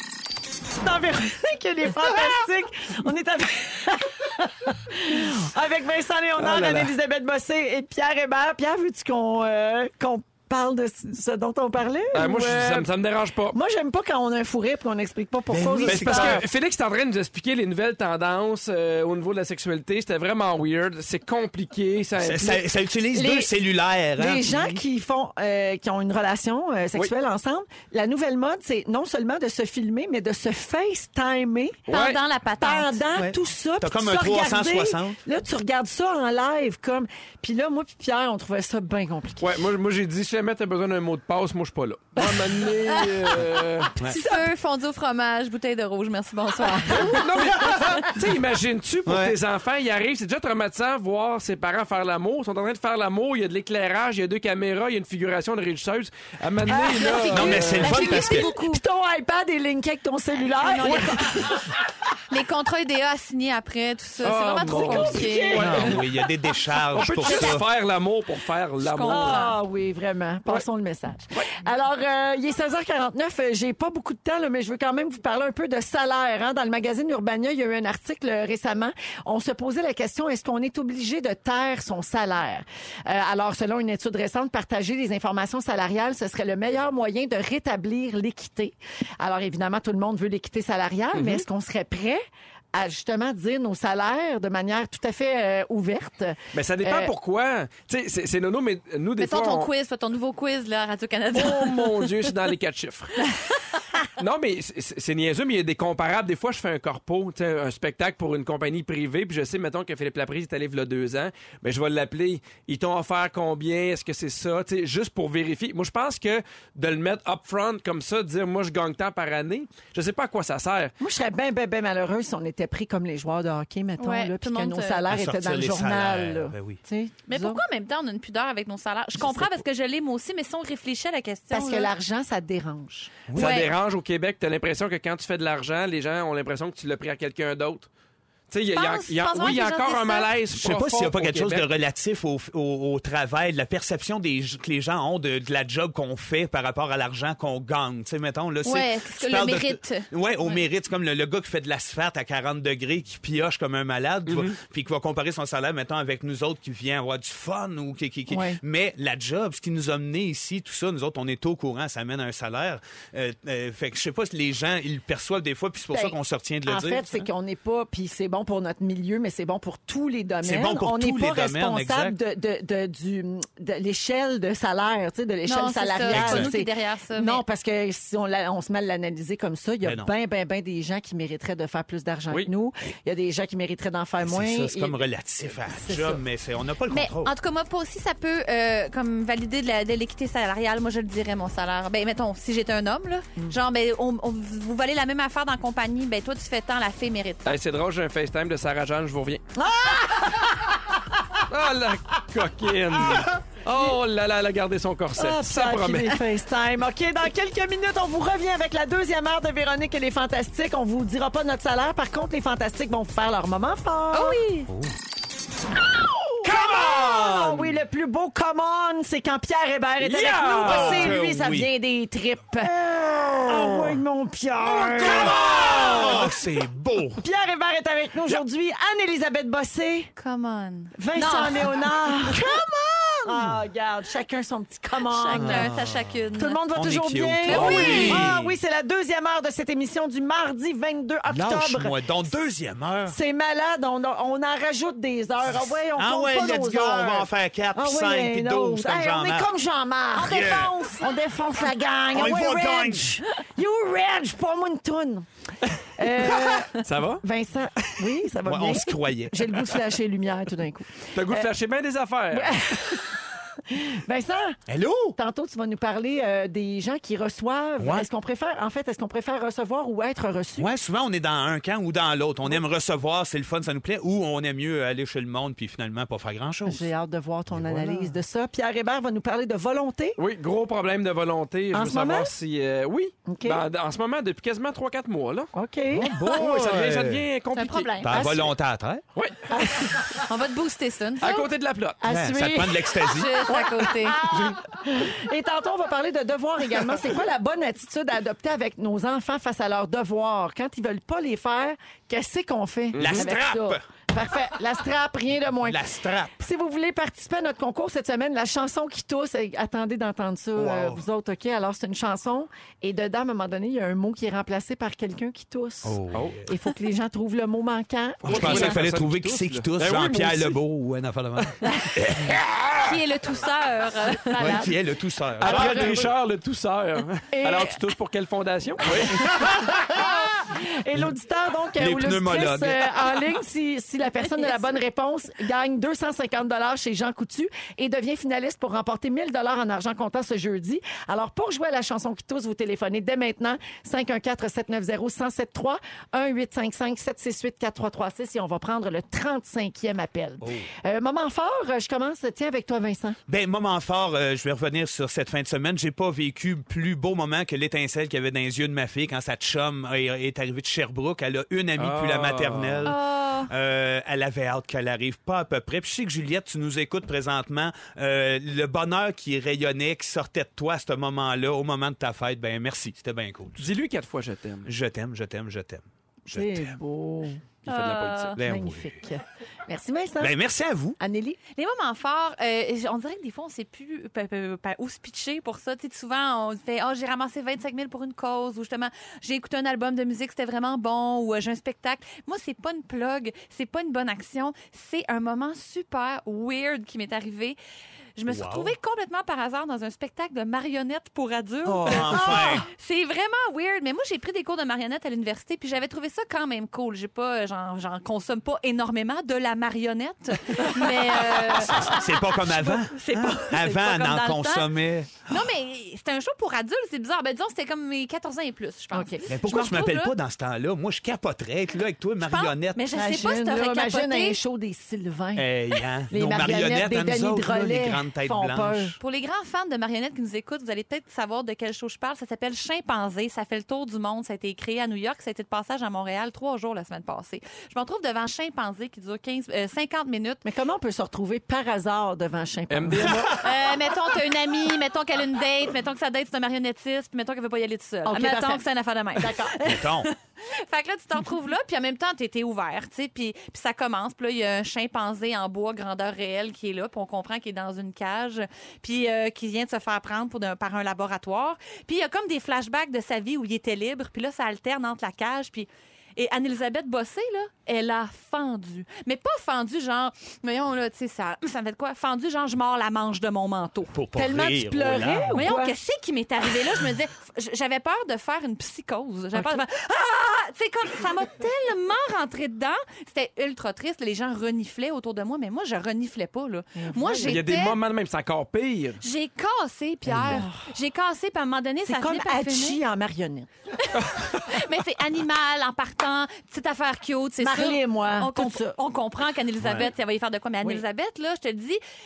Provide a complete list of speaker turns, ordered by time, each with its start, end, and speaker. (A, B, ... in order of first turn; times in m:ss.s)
0:00.8-0:12.9 A
0:06.4-0:06.9 B
0:12.1-0:13.6 B
0:13.5-0:16.4 A
0:15.5-0:16.4 C
0:15.8-0:22.6 B
0:22.2-0:24.8 C
0:23.1-0:23.5 A
0:24.2-0:31.9 A
0:31.9-0:32.2 B
0:31.9-0:33.0 D
0:32.6-0:39.5 A
0:33.2-0:35.2 C
0:39.4-0:43.9 B
0:44.0-0:47.3 D
0:46.9-0:58.0 B
0:49.1-0:49.3 C
0:56.7-1:01.6 A
0:57.2-0:58.8 D
0:57.3-0:58.5 C
1:00.4-1:01.2 D
1:02.3-1:05.8 D
1:04.2-1:06.0 B
1:04.6-1:06.0 A
1:05.6-1:07.6 C
1:06.9-1:09.4 B
1:08.8-1:09.6 D
1:09.1-1:32.2 A
1:31.1-1:31.4 B
1:32.7-1:37.1 A
1:36.5-1:39.7 B
1:39.2-1:42.1 D
1:41.3-1:43.3 B
1:43.2-1:43.5 D
1:44.2-2:00.9 B
2:01.0-2:07.6 A
2:04.0-2:05.1 D
2:05.1-2:06.8 C
2:07.3-2:11.9 D
2:11.5-2:13.1 A
2:13.3-2:13.6 C
2:13.4-2:17.9 B
2:13.4-2:13.7 D
2:18.5-2:21.7 B
2:18.7-2:20.3 D
2:20.6-2:47.3 C
2:28.6-2:30.6 D
2:34.3-2:34.6 B
2:38.3-2:38.6 A
2:45.9-3:05.0 A
2:50.4-2:52.2 C
2:55.5-2:57.4 D
2:56.1-2:56.5 C
2:59.8-3:00.1 C
3:04.2-3:07.3 C
3:05.7-3:06.2 A
3:06.9-3:17.6 D
3:17.5-3:19.4 B
3:19.6-3:20.7 A
3:21.5-3:26.2 B
3:25.2-3:34.4 A
3:34.1-3:34.7 D
3:36.4-3:46.3 A
3:36.5-3:37.6 B
3:40.0-3:41.2 B
3:40.6-3:41.7 C
3:44.7-3:47.2 C
3:45.0-3:46.2 B
3:47.2-3:50.1 A
3:50.2-3:51.9 D
3:51.0-3:52.5 A
3:52.4-3:53.6 C
3:53.2-3:55.7 A
3:55.0-3:56.6 D
3:55.3-3:56.2 C
3:56.4-4:02.0 A
3:56.8-3:58.6 C
3:57.4-3:58.2 D
3:57.7-3:58.2 B
4:01.3-4:03.2 C
4:03.1-4:15.3 A
4:05.9-4:09.5 C
4:10.2-4:10.7 C
4:10.3-4:11.0 D
4:12.1-4:13.2 C
4:16.0-4:21.5 A
4:16.2-4:17.2 B
4:18.4-4:19.7 C
4:21.1-4:22.6 B
4:22.3-4:24.6 A
4:24.7-4:25.2 C
4:25.2-4:30.7 A
4:27.8-4:28.1 C
4:30.6-4:36.9 C
4:36.7-4:40.2 A
4:37.5-4:38.2 C
4:40.2-4:45.5 B
4:41.7-4:42.3 A
4:43.3-4:43.6 A
4:45.5-4:46.1 A
4:45.9-4:47.2 C
4:46.1-4:48.1 B
4:47.5-4:48.2 D
4:48.0-4:49.0 C
4:48.1-4:48.4 A
4:49.2-4:50.0 B
4:49.5-4:50.0 A
4:50.3-4:51.5 D
4:51.2-4:52.0 B
4:52.0-5:05.8 A
4:52.0-4:53.3 C
4:53.0-4:54.2 D
5:02.9-5:03.3 B
5:03.0-5:03.8 C
5:05.6-5:06.4 C
5:06.4-5:18.8 A
5:10.6-5:11.0 C
5:15.8-5:16.5 C
5:16.1-5:16.4 B
5:18.2-5:22.9 C
5:18.3-5:20.6 B
5:22.8-5:24.7 D
5:24.4-5:24.7 A
5:24.4-5:26.1 C
5:25.4-5:29.2 B
5:25.4-5:26.1 A
5:27.3-5:27.8 A
5:29.3-5:30.0 C
5:29.7-5:53.2 A
5:31.8-5:32.9 C
5:50.4-5:50.7 C
5:53.3-6:13.7 C
6:01.8-6:02.9 B
6:02.9-6:03.5 D
6:13.6-6:14.7 B
6:14.6-6:16.8 C
6:16.3-6:17.4 A
6:17.7-6:18.4 B
6:17.7-6:18.4 D
6:18.4-6:18.9 C
6:18.4-6:20.4 A
6:20.2-6:21.0 C
6:21.0-6:21.4 A
6:21.6-6:37.6 D
6:38.2-6:54.7 D
6:38.3-6:38.7 C
6:41.6-6:42.7 C
6:51.6-6:55.3 C
6:55.3-7:00.1 D
6:58.9-6:59.2 A
6:59.3-7:02.8 C
7:02.2-7:04.4 D
7:02.9-7:05.5 A
7:05.4-7:09.0 C
7:06.1-7:09.0 A
7:09.0-7:20.4 D
7:20.4-7:23.3 A
7:22.7-7:23.4 B
7:23.4-7:54.0 D
7:28.0-7:29.6 A
7:29.6-7:30.1 C
7:53.9-7:55.4 C
7:54.2-7:55.8 A
7:55.3-8:07.8 D
7:59.3-7:59.6 A
8:06.8-8:07.4 A
8:07.3-8:09.0 B
8:09.0-8:12.8 D
8:10.1-8:10.4 C
8:10.3-8:10.7 A
8:11.9-8:13.5 A
8:13.9-8:21.8 D
8:14.0-8:14.3 B
8:17.4-8:18.8 A
8:19.6-8:19.9 C